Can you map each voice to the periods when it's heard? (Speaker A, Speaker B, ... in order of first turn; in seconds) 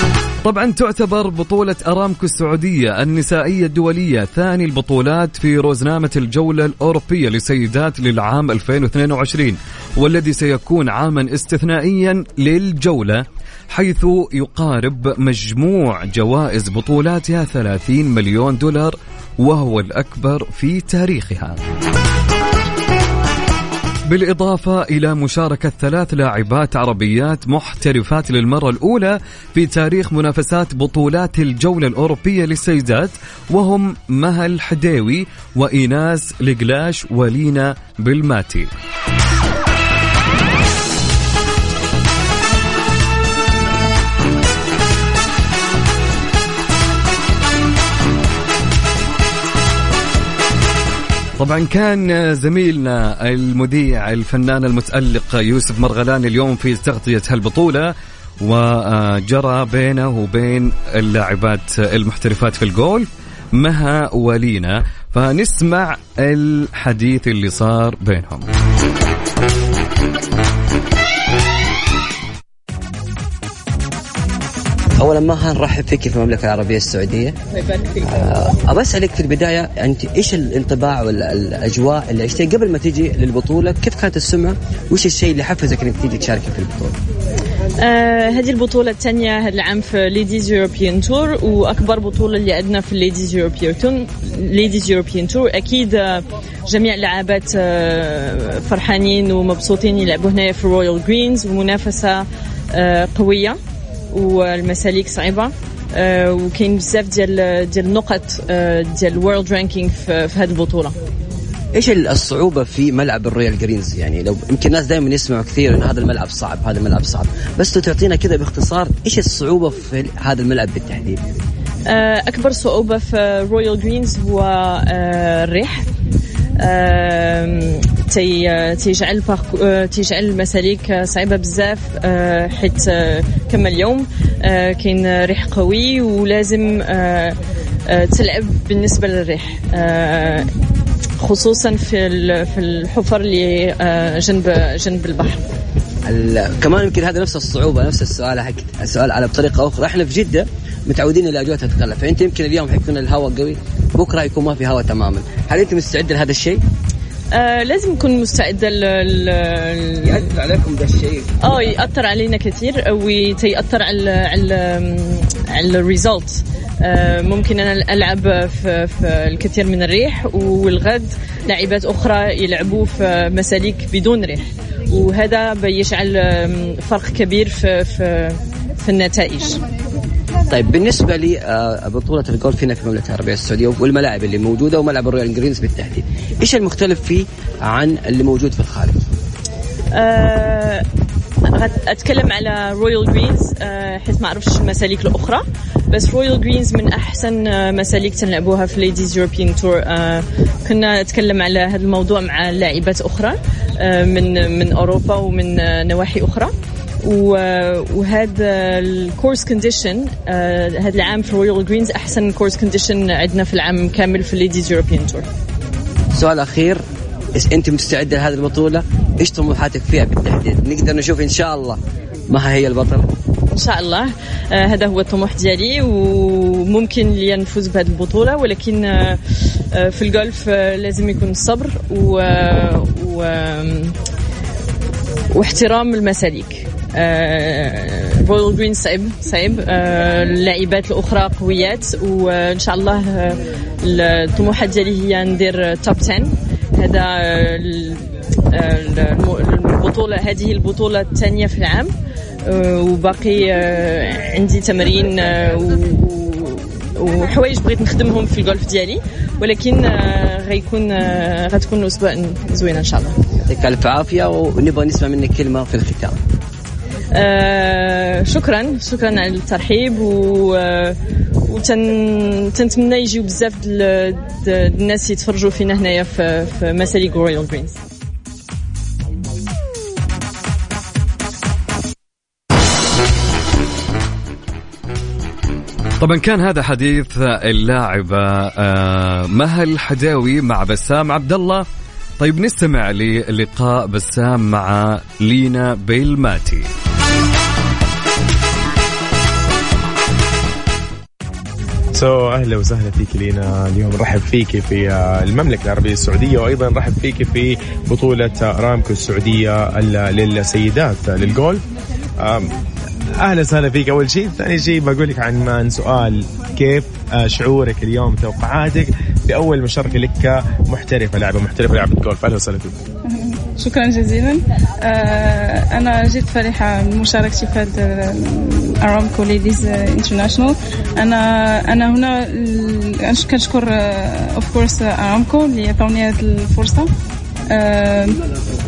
Speaker A: 0.4-21.6, 24.1-38.7, 51.4-68.5, 286.0-291.6, 292.2-296.7
Speaker B: 75.0-77.4, 78.0-87.0, 111.8-121.2, 146.1-156.6, 160.1-161.3, 180.5-189.0, 216.2-216.8, 217.4-221.8, 222.3-223.1, 263.5-266.2
Speaker C: 87.8-103.6, 104.1-111.0, 121.9-125.9, 126.6-137.4, 137.9-140.5, 141.2-145.4, 157.3-160.2, 161.4-179.6, 189.9-190.9, 191.5-215.3, 223.5-229.2, 229.7-234.0, 235.3-251.9, 252.5-263.1, 267.1-277.8
Speaker D: 301.9-311.6, 312.2-312.5, 313.2-322.8
Speaker E: 323.1-336.9, 337.5-338.2